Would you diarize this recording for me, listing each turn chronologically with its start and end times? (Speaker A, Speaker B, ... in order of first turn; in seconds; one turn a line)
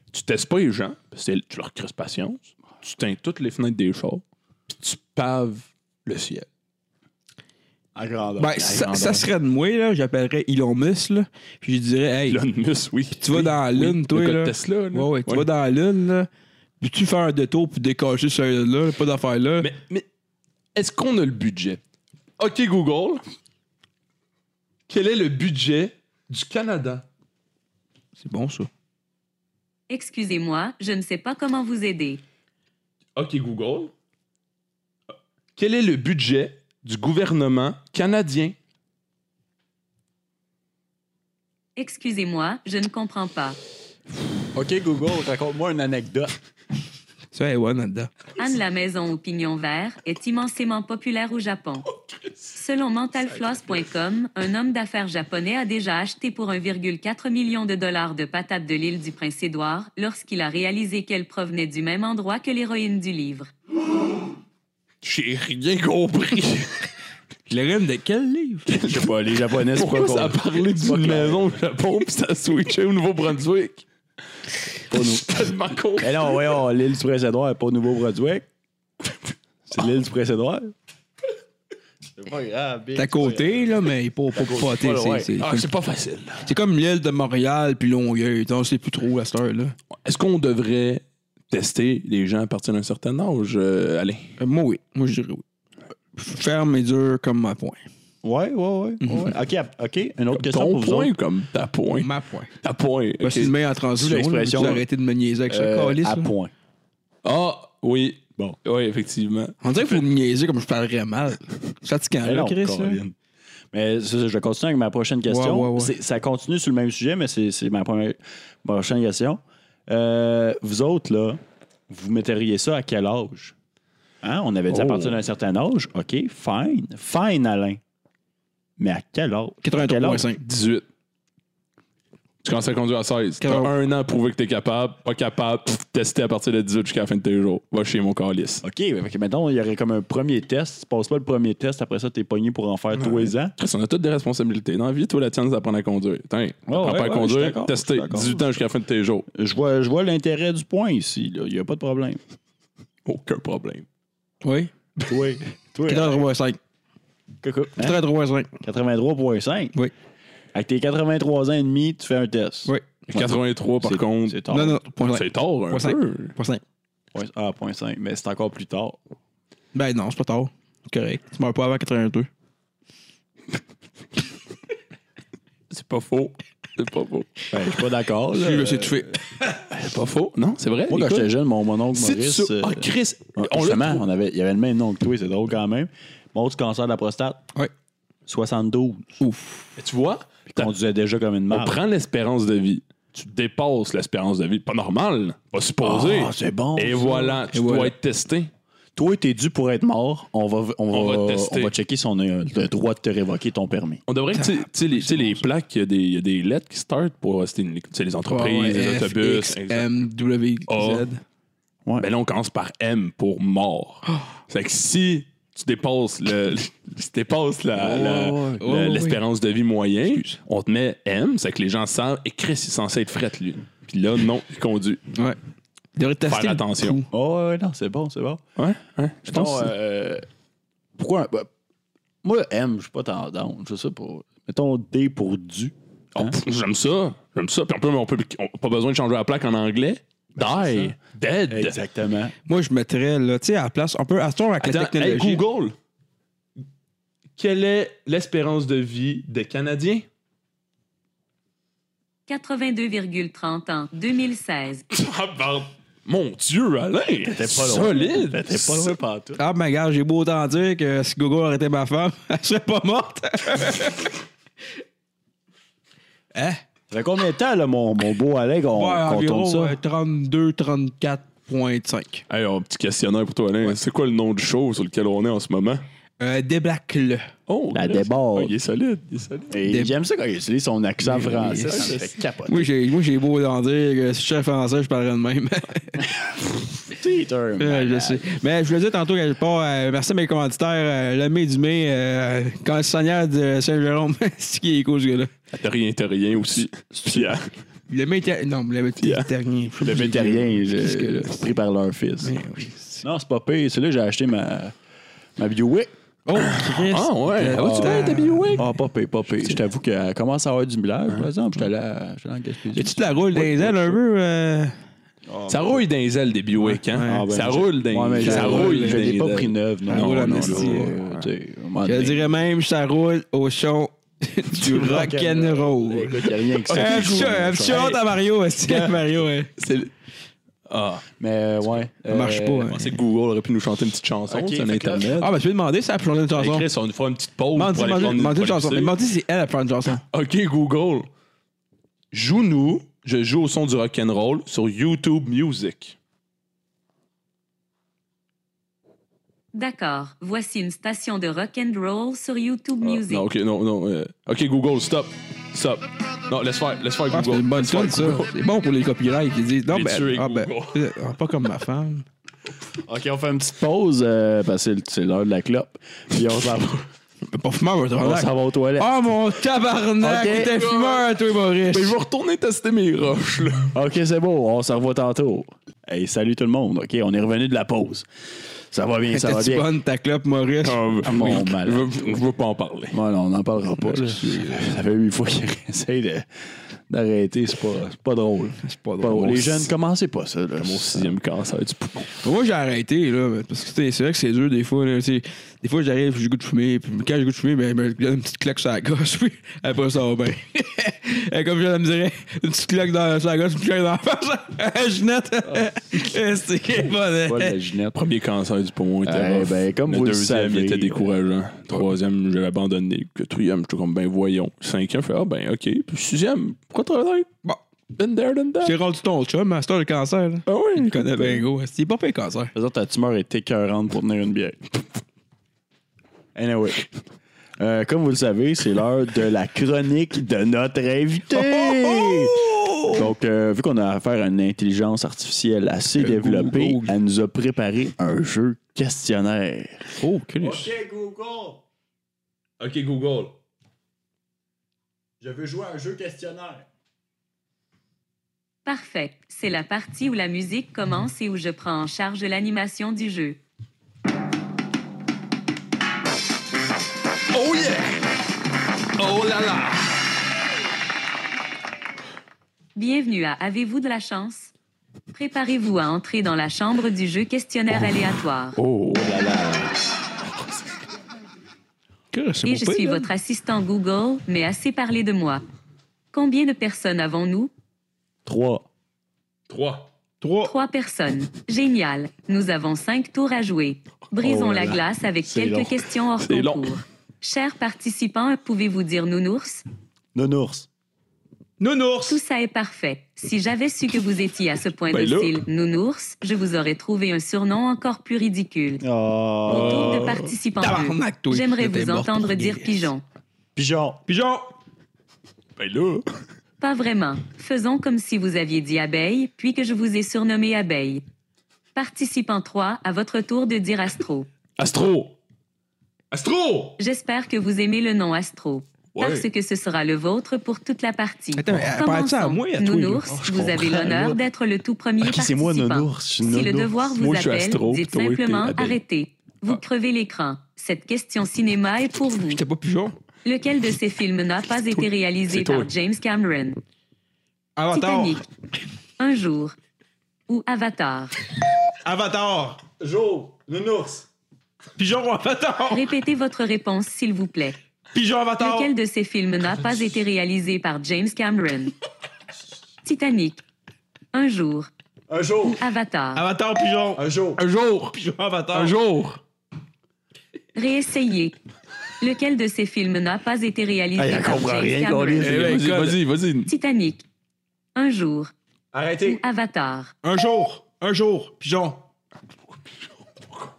Speaker A: 0.1-6.5
Speaker B: 8.0-9.3
Speaker C: 8.4-12.4
Speaker A: 12.3-15.5
Speaker C: 13.2-16.3
Speaker C: 16.8-19.7
Speaker A: 19.6-20.1
Speaker A: 20.8-21.8
Speaker A: 22.4-23.2
Speaker A: 24.9-27.1
Speaker C: 28.2-28.7
Speaker D: 29.9-32.2
Speaker A: 33.1-33.9
Speaker A: 35.6-38.5
Speaker D: 41.8-43.6
Speaker B: 44.5-46.3
Speaker C: 47.3-48.1
Speaker D: 48.4-51.9
Speaker D: 52.5-63.5
Speaker A: 65.0-66.9
Speaker C: 67.5-68.8
Speaker A: 68.7-69.0
Speaker B: 68.8-71.6
Speaker A: 69.6-73.8
Speaker A: 74.7-76.5
Speaker B: 74.9-75.5
Speaker B: 76.0-78.5
Speaker B: 79.7-80.7
Speaker B: 82.2-83.7
Speaker C: 83.0-85.7
Speaker B: 84.3-85.3
Speaker A: 85.4-86.5
Speaker C: 86.5-89.8
Speaker A: 90.0-94.3
Speaker C: 94.4-95.4
Speaker C: 96.2-97.8
Speaker B: 98.2-101.1
Speaker C: 99.0-99.3
Speaker A: 100.3-103.5
Speaker C: 102.0-102.5
Speaker C: 103.2-106.3
Speaker B: 103.9-104.8
Speaker B: 105.5-106.5
Speaker A: 107.2-110.0
Speaker C: 109.6-113.0
Speaker B: 112.2-113.2
Speaker B: 113.7-123.5
Speaker C: 115.3-115.9
Speaker B: 124.2-127.8
Speaker A: 124.7-125.2
Speaker B: 128.8-130.3
Speaker C: 129.6-130.4
Speaker A: 130.4-130.9
Speaker A: 132.4-138.6
Speaker C: 133.4-133.7
Speaker B: 138.6-143.5
Speaker A: 142.9-149.3
Speaker B: 146.7-148.5
Speaker B: 149.3-152.2
Speaker A: 153.1-153.9
Speaker C: 154.4-154.7
Speaker B: 155.1-156.2
Speaker C: 155.9-156.6
Speaker B: 157.4-158.0
Speaker C: 157.8-158.5
Speaker B: 158.6-159.8
Speaker B: 160.5-164.8
Speaker C: 162.7-162.9
Speaker A: 163.1-166.3
Speaker C: 164.5-166.6
Speaker B: 167.1-169.0
Speaker C: 169.7-172.3
Speaker A: 175.7-177.5
Speaker B: 177.5-179.1
Speaker C: 178.3-179.7
Speaker A: 179.7-181.3
Speaker B: 180.9-187.5
Speaker A: 181.9-184.0
Speaker B: 188.3-189.2
Speaker C: 189.2-189.7
Speaker A: 189.8-190.7
Speaker B: 190.5-191.8
Speaker A: 191.5-198.5
Speaker B: 195.8-197.4
Speaker C: 197.5-197.9
Speaker B: 199.0-204.0
Speaker A: 200.9-201.7
Speaker A: 204.1-209.9
Speaker C: 204.3-205.4
Speaker C: 208.3-211.2
Speaker A: 210.7-211.1
Speaker A: 212.0-225.0
Speaker B: 217.8-218.6
Speaker C: 218.5-219.2
Speaker C: 220.1-220.4
Speaker C: 226.0-227.1
Speaker A: 226.2-227.0
Speaker B: 227.1-228.5
Speaker A: 228.6-229.7
Speaker B: 229.2-230.3
Speaker B: 231.0-231.5
Speaker B: 232.2-236.4
Speaker A: 236.2-241.8
Speaker B: 240.4-241.0
Speaker B: 241.5-242.3
Speaker C: 242.5-245.4
Speaker A: 244.6-245.8
Speaker A: 247.4-250.1
Speaker D: 252.3-254.9
Speaker A: 254.9-259.0
Speaker B: 257.2-259.4
Speaker C: 259.4-264.1
Speaker C: 266.3-266.6
Speaker B: 266.9-269.8
Speaker C: 268.7-272.2
Speaker A: 272.3-275.8
Speaker C: 276.2-277.3
Speaker A: 277.5-279.6
Speaker B: 277.7-278.6
Speaker B: 279.5-282.7
Speaker C: 279.7-279.9
Speaker C: 281.0-282.0
Speaker A: 281.4-282.1
Speaker C: 282.5-286.1
Speaker B: 286.9-288.3
Speaker C: 287.6-295.3
Speaker A: 295.5-297.5
Speaker B: 297.0-297.3
Speaker C: 297.9-301.6
Speaker A: 299.0-299.3
Speaker B: 299.8-302.4
Speaker C: 302.2-303.1
Speaker B: 303.0-304.7
Speaker B: 305.4-305.9
Speaker C: 306.3-308.6
Speaker A: 306.4-308.7
Speaker B: 307.6-313.0
Speaker C: 312.8-314.8
Speaker A: 313.3-314.0
Speaker B: 315.3-315.9
Speaker A: 315.5-321.2
Speaker C: 316.6-317.3
Speaker B: 317.1-322.3
Speaker C: 318.2-319.3
Speaker C: 319.9-321.0
Speaker C: 321.9-329.5
Speaker B: 324.6-328.0
Speaker A: 326.3-328.0
Speaker A: 328.7-329.0
Speaker A: 329.6-329.9
Speaker A: 330.7-331.1
Speaker B: 331.1-332.8
Speaker C: 332.1-332.9
Speaker A: 332.7-335.3
Speaker B: 334.3-335.2
Speaker C: 335.2-336.7
Speaker A: 336.4-339.0
Speaker C: 337.5-340.0
Speaker A: 340.0-341.1
Speaker A: 342.1-346.0
Speaker D: 349.5-353.3
Speaker A: 352.8-358.3
Speaker C: 357.1-362.1
Speaker A: 359.7-360.9
Speaker B: 362.8-366.9
Speaker C: 367.3-372.0
Speaker B: 368.0-369.0
Speaker B: 370.0-370.5
Speaker A: 370.1-371.2
Speaker A: 371.7-373.7
Speaker B: 373.7-378.1
Speaker B: 378.7-379.7
Speaker C: 379.1-381.4
Speaker A: 380.6-383.0
Speaker B: 381.0-382.2
Speaker B: 382.9-386.3
Speaker C: 383.8-384.8
Speaker B: 386.9-391.2
Speaker C: 388.6-389.5
Speaker A: 389.2-389.6
Speaker A: 390.6-392.1
Speaker C: 392.2-407.6
Speaker B: 407.2-408.1
Speaker A: 407.9-417.3
Speaker B: 409.0-411.1
Speaker A: 417.9-418.8
Speaker C: 418.6-422.5
Speaker A: 420.5-421.5
Speaker B: 422.5-424.6
Speaker B: 426.4-426.9
Speaker B: 427.6-432.4
Speaker C: 431.3-433.1
Speaker B: 432.9-439.9
Speaker C: 436.0-437.0
Speaker C: 440.0-440.7
Speaker B: 440.4-441.6
Speaker A: 442.6-443.3
Speaker B: 445.2-446.7
Speaker D: 448.7-453.4
Speaker A: 457.3-458.0
Speaker A: 459.0-459.9
Speaker D: 462.8-464.5
Speaker D: 465.1-468.6
Speaker A: 468.6-469.3
Speaker B: 468.9-469.8
Speaker C: 472.1-473.1
Speaker D: 472.4-475.4
Speaker D: 476.1-477.5
Speaker B: 478.3-478.7
Speaker A: 479.5-479.9
Speaker C: 480.2-480.5
Speaker D: 480.4-489.6
Speaker B: 484.2-485.8
Speaker A: 486.2-486.8
Speaker B: 490.1-490.7
Speaker C: 491.6-492.2
Speaker D: 492.1-498.8
Speaker A: 494.9-495.4
Speaker B: 498.8-500.2
Speaker A: 499.5-500.3
Speaker D: 499.5-503.0
Speaker C: 500.6-502.9
Speaker B: 503.6-504.0
Speaker C: 504.1-504.5
Speaker A: 505.6-506.1
Speaker D: 506.6-511.0
Speaker D: 511.8-514.3
Speaker A: 514.6-515.2
Speaker A: 516.1-516.8
Speaker D: 516.8-532.4
Speaker A: 519.0-519.3
Speaker C: 521.4-523.0
Speaker B: 523.1-524.2
Speaker B: 525.0-526.7
Speaker A: 527.0-528.8
Speaker C: 532.3-533.0
Speaker D: 533.2-536.6
Speaker A: 534.7-535.7
Speaker C: 537.6-538.2
Speaker D: 537.7-538.2
Speaker D: 539.0-539.5
Speaker D: 540.3-541.2
Speaker C: 541.8-542.6
Speaker B: 542.8-544.1
Speaker C: 544.8-545.8
Speaker D: 545.7-547.6
Speaker C: 547.9-548.7
Speaker D: 548.4-551.8
Speaker D: 552.8-553.4
Speaker D: 554.1-554.7
Speaker B: 555.1-555.6
Speaker D: 555.6-556.2
Speaker C: 556.1-557.0
Speaker B: 557.0-557.4
Speaker A: 557.4-558.0
Speaker C: 557.9-558.8
Speaker A: 558.5-559.2
Speaker D: 560.5-561.4
Speaker D: 562.0-565.4
Speaker B: 564.0-565.7
Speaker C: 565.2-566.0
Speaker A: 565.2-566.5
Speaker D: 566.5-567.0
Speaker D: 567.8-568.3
Speaker B: 568.7-569.2
Speaker D: 569.0-569.9
Speaker C: 570.0-571.9